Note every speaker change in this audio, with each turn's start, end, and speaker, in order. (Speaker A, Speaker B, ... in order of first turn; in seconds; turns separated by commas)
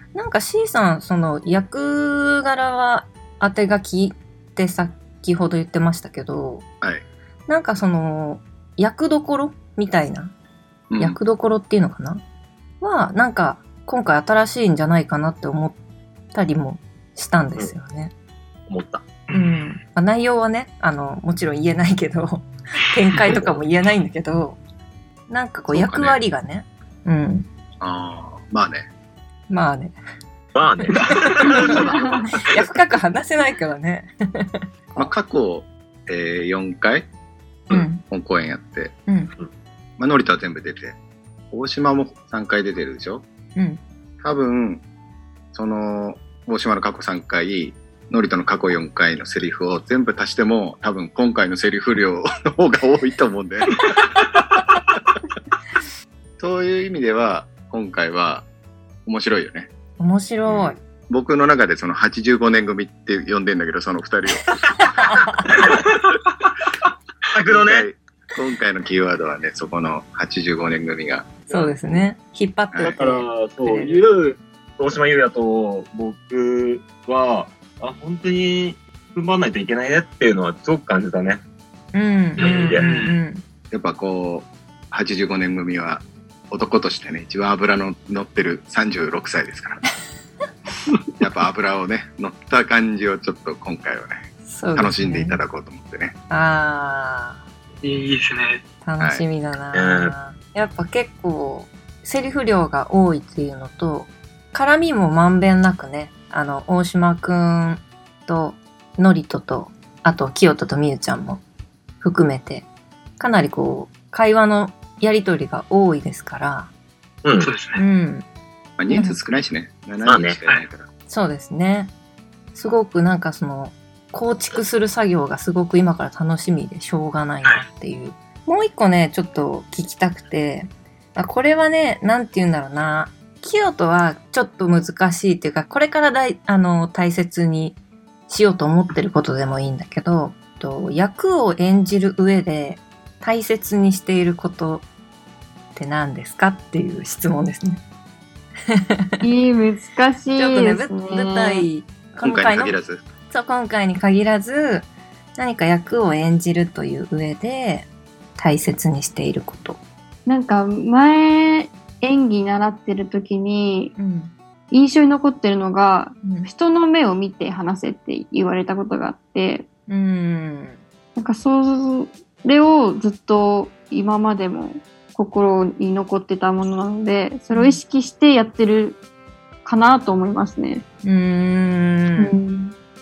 Speaker A: 0.1-6.6, Speaker A: 7.5-10.3, Speaker B: 10.9-11.2, Speaker A: 11.0-12.2, Speaker A: 12.8-15.8, Speaker A: 16.3-18.1, Speaker C: 18.7-19.1, Speaker D: 19.3-19.8, Speaker A: 19.3-24.6, Speaker A: 25.3-27.4, Speaker B: 25.7-26.2, Speaker B: 27.8-28.9, Speaker A: 29.5-29.9, Speaker C: 30.5-32.2, Speaker A: 30.9-35.1, Speaker D: 30.9-31.8, Speaker E: 31.9-32.2, Speaker B: 35.0-37.0, Speaker A: 37.7-38.0, Speaker B: 38.0-38.9, Speaker A: 39.1-39.3, Speaker B: 40.0-41.0, Speaker B: 41.5-43.2, Speaker A: 43.5-43.8, Speaker B: 44.2-44.8, Speaker B: 45.5-54.0, Speaker D: 53.8-54.4, Speaker B: 56.4-58.4, Speaker B: 59.0-59.7, Speaker A: 60.0-60.8, Speaker B: 61.1-64.5, Speaker A: 64.9-65.4, Speaker C: 67.3-67.9, Speaker B: 67.4-71.3, Speaker A: 71.5-74.0, Speaker C: 72.8-81.4, Speaker A: 81.9-83.4, Speaker C: 82.4-82.8, Speaker D: 82.5-83.2, Speaker B: 83.7-89.8, Speaker B: 91.2-94.2, Speaker A: 94.5-95.4, Speaker B: 94.8-96.1, Speaker A: 96.3-97.4, Speaker D: 97.8-98.6, Speaker A: 98.8-111.4, Speaker C: 99.7-100.1, Speaker A: 112.0-112.7, Speaker A: 113.2-116.7, Speaker C: 117.2-117.5, Speaker D: 117.4-117.8, Speaker A: 117.7-118.2, Speaker B: 118.8-120.9, Speaker A: 118.9-119.2, Speaker C: 120.0-120.4, Speaker A: 121.1-121.9, Speaker A: 122.5-137.8, Speaker A: 138.3-144.8, Speaker A: 145.7-147.8, Speaker A: 148.7-149.2, Speaker E: 149.2-151.7, Speaker A: 150.4-152.8, Speaker B: 152.2-153.0, Speaker A: 153.3-159.8, Speaker E: 160.3-163.9, Speaker A: 164.0-164.3, Speaker E: 164.7-169.7, Speaker A: 166.2-166.5, Speaker A: 169.9-170.8, Speaker E: 171.2-179.0, Speaker A: 177.5-177.8, Speaker E: 179.6-180.8, Speaker A: 181.0-182.3, Speaker E: 182.2-182.7